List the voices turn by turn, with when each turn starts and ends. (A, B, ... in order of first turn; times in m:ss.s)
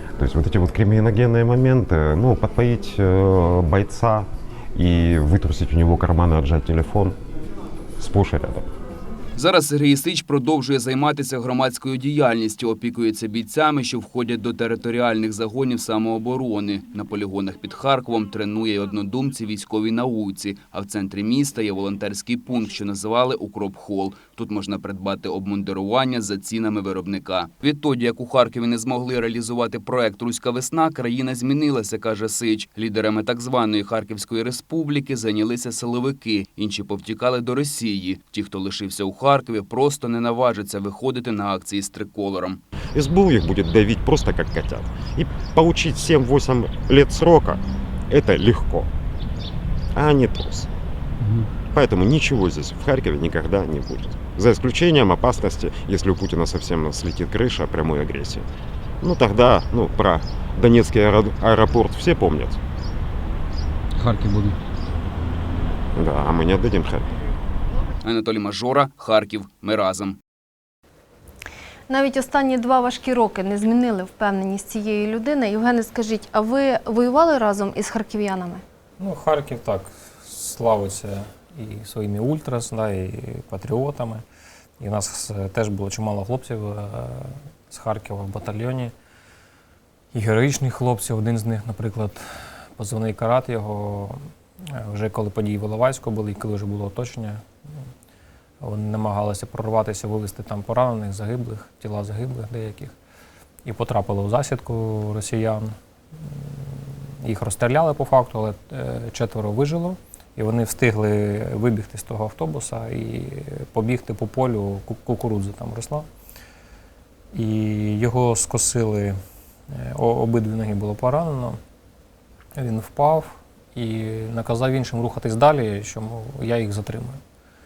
0:00.2-0:07.2 A
0:08.0-0:08.7 A
0:09.4-0:42.6 B
0:42.9-0:48.9 A
0:49.9-0:50.7 A
0:51.7-0:58.5 A
0:59.0-1:02.6 A
1:04.0-1:04.5 B
1:05.9-1:07.1 A
1:08.0-1:10.2 B
1:11.9-1:18.6 C
1:19.0-1:24.2 D
1:24.8-1:28.9 D
1:30.1-1:37.4 D
1:38.6-1:42.9 D
1:43.6-1:56.0 D
1:57.3-1:59.2 D
1:59.7-2:01.6 D
2:02.6-2:07.2 D